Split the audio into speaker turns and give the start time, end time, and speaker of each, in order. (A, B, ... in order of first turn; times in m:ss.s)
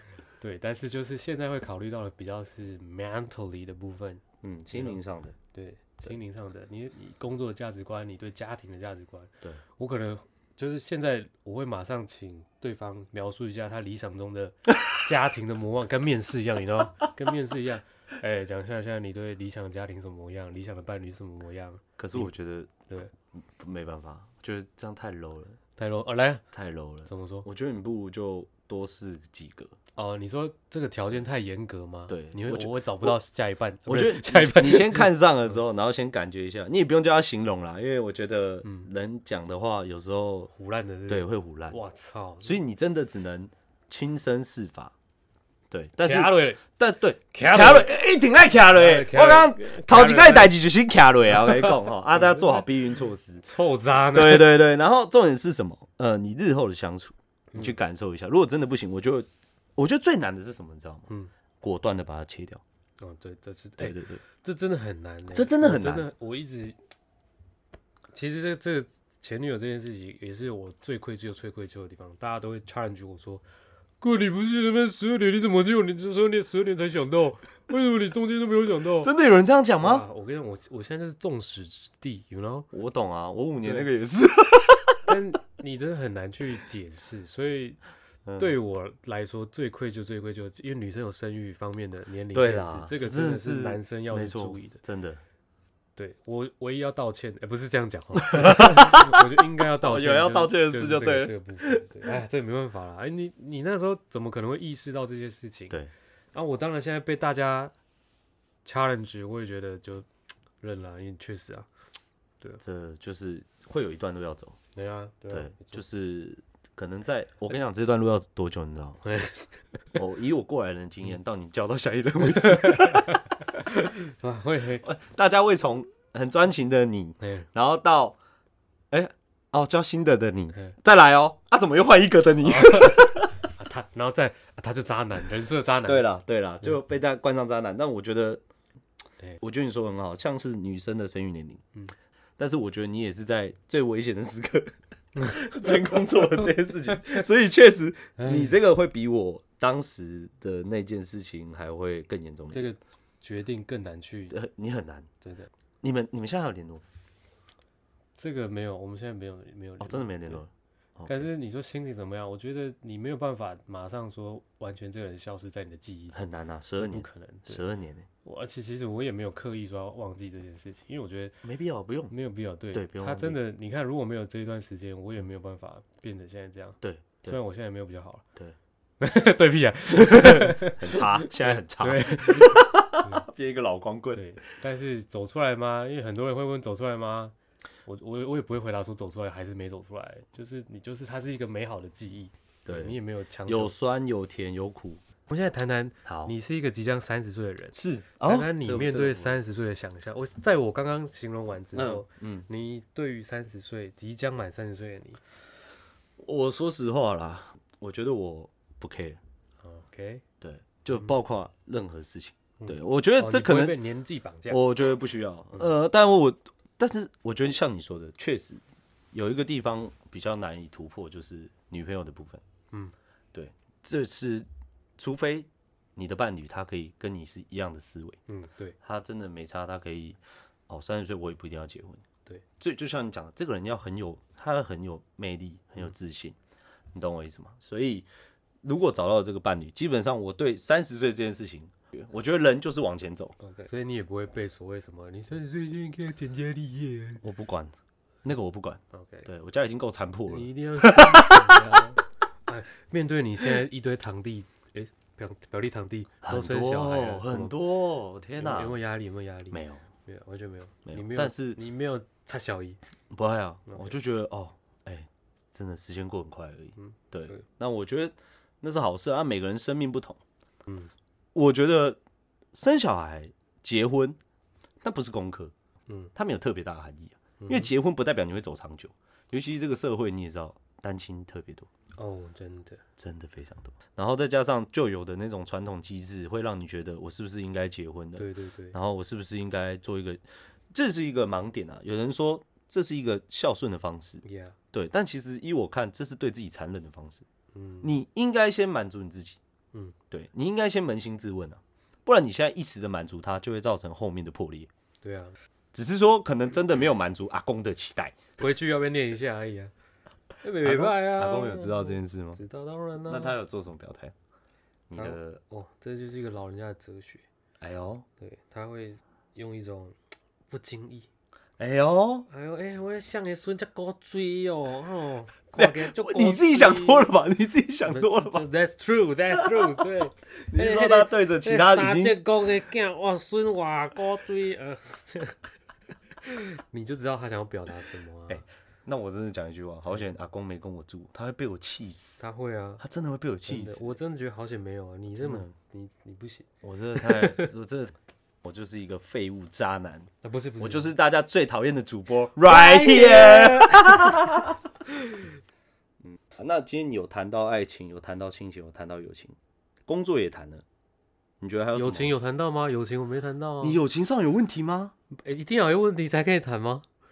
0:00.4-0:05.0 A
0:04.4-0:05.4 B
0:05.5-0:22.3 A
0:22.0-0:22.8 B
0:23.3-0:25.6 B
0:25.8-0:26.4 A
0:26.5-0:29.8 B
0:27.1-0:27.5 A
0:30.0-0:35.1 A
0:32.1-0:33.2 B
0:33.9-0:40.5 B
0:38.6-0:38.9 A
0:40.5-0:42.6 A
0:41.1-0:41.8 B
0:42.4-0:44.9 B
0:45.7-0:53.4 B
0:46.0-0:46.6 A
0:47.3-0:47.9 A
0:48.7-0:50.6 A
0:51.3-0:52.7 A
0:53.4-0:54.6 A
0:54.1-1:01.1 B
1:01.6-1:02.6 B
1:03.0-1:06.8 A
1:03.8-1:04.2 B
1:05.3-1:06.1 B
1:08.1-1:13.4 A
1:14.0-1:19.1 A
1:19.0-1:20.0 B
1:19.8-1:22.7 A
1:22.7-1:25.0 B
1:23.6-1:23.9 A
1:25.1-1:27.8 A
1:28.2-1:28.5 B
1:28.4-1:34.8 A
1:32.3-1:35.2 B
1:36.0-1:45.8 A
1:38.2-1:41.8 B
1:46.3-1:47.7 A
1:48.6-1:50.1 A
1:50.6-1:51.7 A
1:52.6-1:54.6 B
1:54.8-1:55.8 A
1:55.3-1:59.0 B
1:59.0-1:59.5 A
2:00.0-2:03.2 B
2:02.2-2:04.8 A
2:04.8-2:08.2 B
2:07.2-2:07.5 A
2:08.9-2:13.4 B
2:12.4-2:16.1 A
2:15.8-2:18.4 B
2:19.4-2:21.6 B
2:22.4-2:32.7 B
2:28.2-2:28.6 A
2:32.5-2:34.4 A
2:34.3-2:35.1 B
2:35.2-2:35.5 A
2:35.8-2:36.8 B
2:38.2-2:40.4 A
2:39.8-2:41.2 B
2:41.1-2:46.2 A
2:46.1-2:48.1 B
2:46.8-2:47.6 A
2:48.2-2:51.4 A
2:51.4-2:52.1 B
2:52.1-2:58.2 A
2:52.7-2:53.4 B
2:56.8-2:57.4 B
2:59.0-3:03.3 A
2:59.9-3:04.2 B
3:04.2-3:07.3 A
3:07.9-3:13.7 A
3:12.7-3:15.0 B
3:15.3-3:25.2 A
3:16.0-3:16.3 B
3:17.7-3:19.4 B
3:21.7-3:22.5 B
3:26.2-3:29.2 B
3:29.6-3:30.2 A
3:30.4-3:33.8 B
3:32.6-3:34.6 A
3:34.5-3:42.4 B
3:43.3-3:44.5 B
3:45.0-3:48.2 B
3:48.3-3:48.8 A
3:48.8-3:52.0 B
3:52.6-3:56.4 B
3:56.9-3:58.1 B
3:58.6-4:03.4 B
4:03.4-4:07.2 A
4:07.2-4:11.8 B
4:08.9-4:09.3 A
4:10.3-4:17.6 A
4:16.2-4:18.8 B
4:18.4-4:22.8 A
4:19.5-4:19.9 B
4:20.9-4:21.6 B
4:23.1-4:30.2 B
4:23.7-4:24.0 A
4:26.8-4:27.4 A
4:31.4-4:32.0 B
4:32.5-4:34.2 B
4:34.8-4:35.5 B
4:36.2-4:41.7 B
4:37.4-4:37.7 A
4:42.0-4:42.8 A
4:43.0-4:57.3 B
4:48.2-4:48.8 A
4:54.2-4:54.6 A
4:57.5-4:57.9 A
4:57.8-4:59.4 B
5:00.1-5:04.7 B
5:05.0-5:05.4 A
5:05.7-5:08.3 B
5:08.4-5:09.7 A
5:10.4-5:13.4 A
5:10.6-5:12.4 B
5:13.1-5:14.1 B
5:14.9-5:15.4 B
5:15.0-5:17.2 A
5:17.6-5:18.0 B
5:18.2-5:20.0 A
5:20.5-5:21.1 A
5:21.6-5:22.3 B
5:22.3-5:27.1 A
5:25.6-5:28.4 B
5:27.9-5:35.4 A
5:29.3-5:29.8 B
5:30.4-5:32.2 B
5:36.2-5:38.4 A
5:38.3-5:42.2 B
5:42.2-5:42.8 A
5:42.8-5:44.0 B
5:43.5-5:47.5 A
5:45.2-5:45.5 B
5:46.6-5:54.6 B
5:50.2-5:50.9 A
5:52.5-5:54.4 A
5:54.9-5:55.3 A
5:56.0-5:59.4 B
5:59.9-6:00.6 B
6:01.4-6:02.1 B
6:01.8-6:03.8 A
6:03.6-6:04.9 B
6:05.1-6:06.8 A